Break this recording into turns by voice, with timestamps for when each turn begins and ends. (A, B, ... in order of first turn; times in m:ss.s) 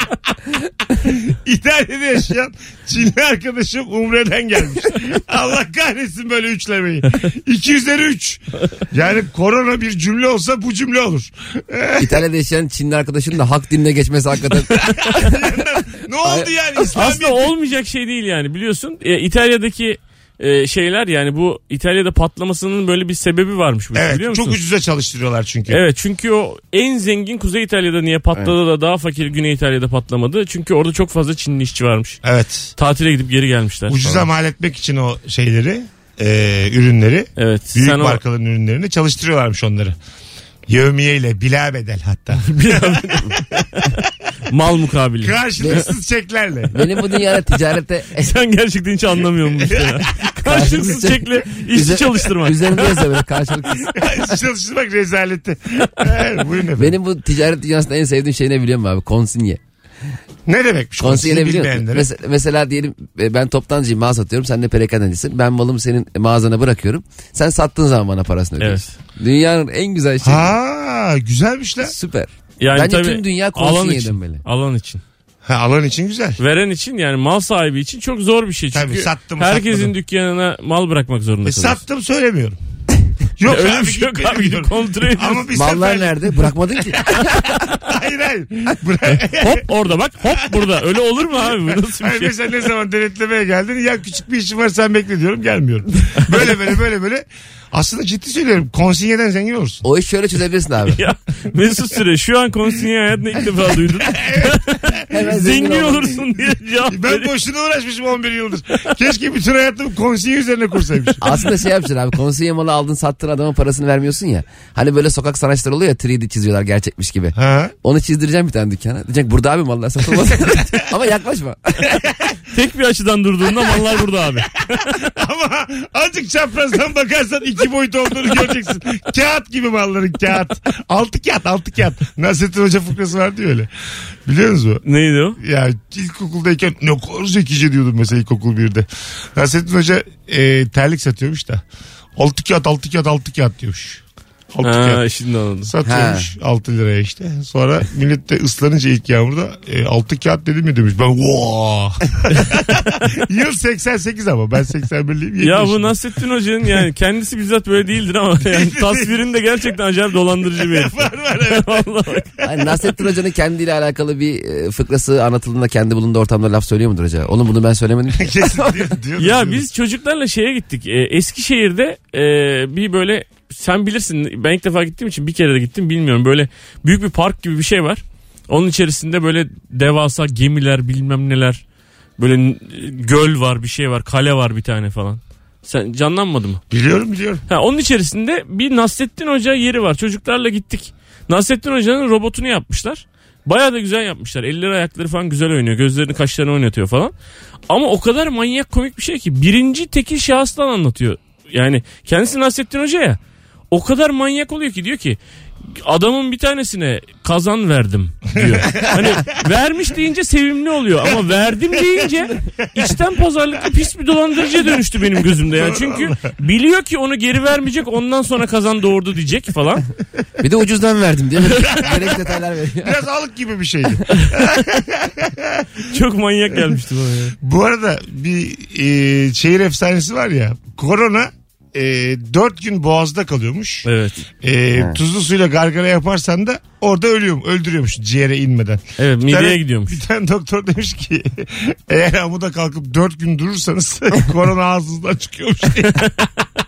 0:00.9-0:12.2 A
0:12.0-0:15.6 B
0:14.8-0:17.5 A
0:16.2-0:16.5 B
0:16.9-0:24.6 C
0:24.0-0:25.8 A
0:25.7-0:32.2 C
0:32.2-0:32.7 A
0:32.8-0:34.0 C
0:33.9-0:40.0 A
0:37.4-0:38.2 C
0:40.7-0:43.4 A
0:42.4-0:43.9 C
0:44.5-0:45.8 C
0:45.2-0:46.8 A
0:45.6-0:45.9 B
0:46.7-0:48.3 B
0:48.2-0:53.2 C
0:49.6-0:50.6 A
0:50.4-0:53.9 B
0:53.9-0:57.0 A
0:56.8-0:59.6 B
1:00.5-1:02.1 A
1:01.0-1:10.6 B
1:08.6-1:08.9 C
1:10.2-1:11.9 A
1:11.8-1:14.4 B
1:12.6-1:15.0 C
1:15.4-1:16.4 A
1:16.4-1:21.8 C
1:18.7-1:19.9 A
1:21.4-1:22.6 A
1:23.4-1:29.6 A
1:23.4-1:25.5 C
1:25.5-1:27.6 B
1:29.2-1:32.5 C
1:31.7-1:39.8 A
1:39.8-1:41.0 B
1:41.0-1:47.3 C
1:44.1-1:45.2 A
1:45.1-1:46.2 B
1:46.9-1:51.2 A
1:51.2-2:01.9 B
1:57.4-1:57.7 A
2:02.0-2:02.2 A
2:02.5-2:04.6 C
2:05.2-2:13.7 A
2:14.3-2:14.8 A
2:14.8-2:15.4 C
2:15.4-2:21.6 A
2:22.2-2:24.0 A
2:24.5-2:25.0 A
2:24.6-2:25.7 C
2:25.7-2:35.9 A
2:25.8-2:26.3 B
2:35.4-2:42.3 C
2:38.5-2:39.2 A
2:40.5-2:42.7 A
2:42.4-2:49.0 B
2:48.2-2:49.6 A
2:49.2-3:01.6 C
3:02.2-3:06.6 C
3:06.7-3:07.4 A
3:07.5-3:17.1 C
3:17.7-3:23.2 C
3:23.7-3:25.2 C
3:25.7-3:39.9 C
3:28.4-3:29.2 A
3:35.5-3:36.2 A
3:40.4-3:43.0 B
3:41.8-3:42.1 A
3:42.8-3:45.7 A
3:45.9-3:47.4 C
3:47.4-3:53.9 A
3:53.9-3:54.3 C
3:54.4-4:06.1 A
3:59.0-4:00.0 C